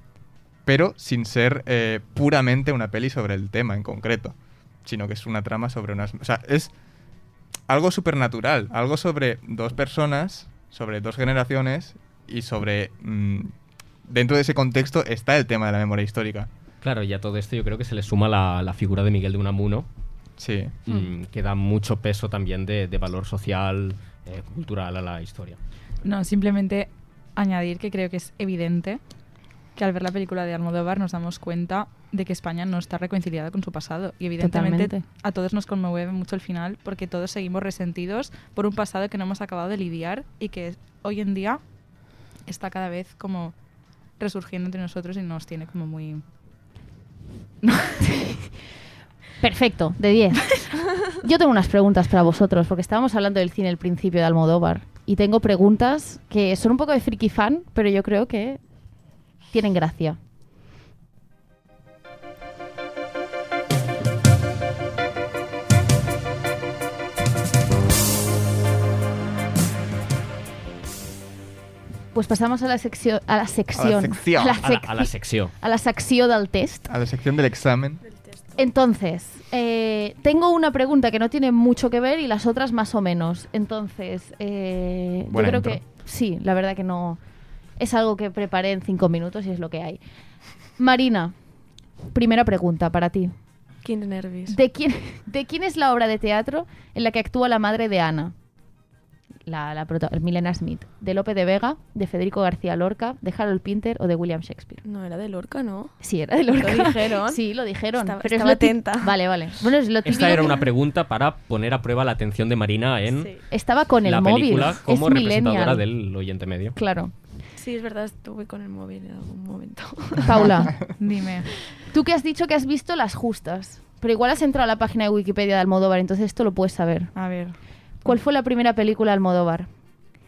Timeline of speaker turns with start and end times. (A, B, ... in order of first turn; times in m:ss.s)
0:00.6-0:06.7 A
0:07.7-0:13.5 A
0:14.0-0:16.5 A
0:16.8-0:19.9 B
0:20.4-0:20.7 A
0:20.8-0:25.6 B
0:26.0-0:29.0 C
0:29.7-0:41.6 C
0:34.4-0:35.0 D
0:42.5-0:43.5 C
0:44.2-0:46.2 C
0:47.6-0:48.2 C
0:49.4-0:58.6 D
0:59.5-1:00.2 D
1:12.1-1:16.9 D
1:13.7-1:14.6 A
1:14.6-1:15.5 B
1:16.9-1:18.0 A
1:18.0-1:18.6 E
1:18.6-1:27.2 D
1:25.3-1:25.8 A
1:27.8-1:30.0 D
1:30.8-1:31.3 D
1:32.1-1:33.3 D
1:33.8-1:34.6 E
1:34.5-1:38.3 D
1:39.4-1:44.8 D
1:44.8-1:45.9 E
1:46.0-1:50.6 D
1:46.5-1:47.4 E
1:47.9-1:49.2 E
1:50.0-1:53.4 B
1:53.1-1:53.4 E
1:53.5-1:55.8 D
1:54.0-1:56.8 B
1:56.7-1:57.1 D
1:57.6-2:00.8 E
2:00.2-2:00.8 D
2:01.0-2:01.5 C
2:01.9-2:07.1 D
2:07.1-2:07.6 C
2:08.0-2:09.7 D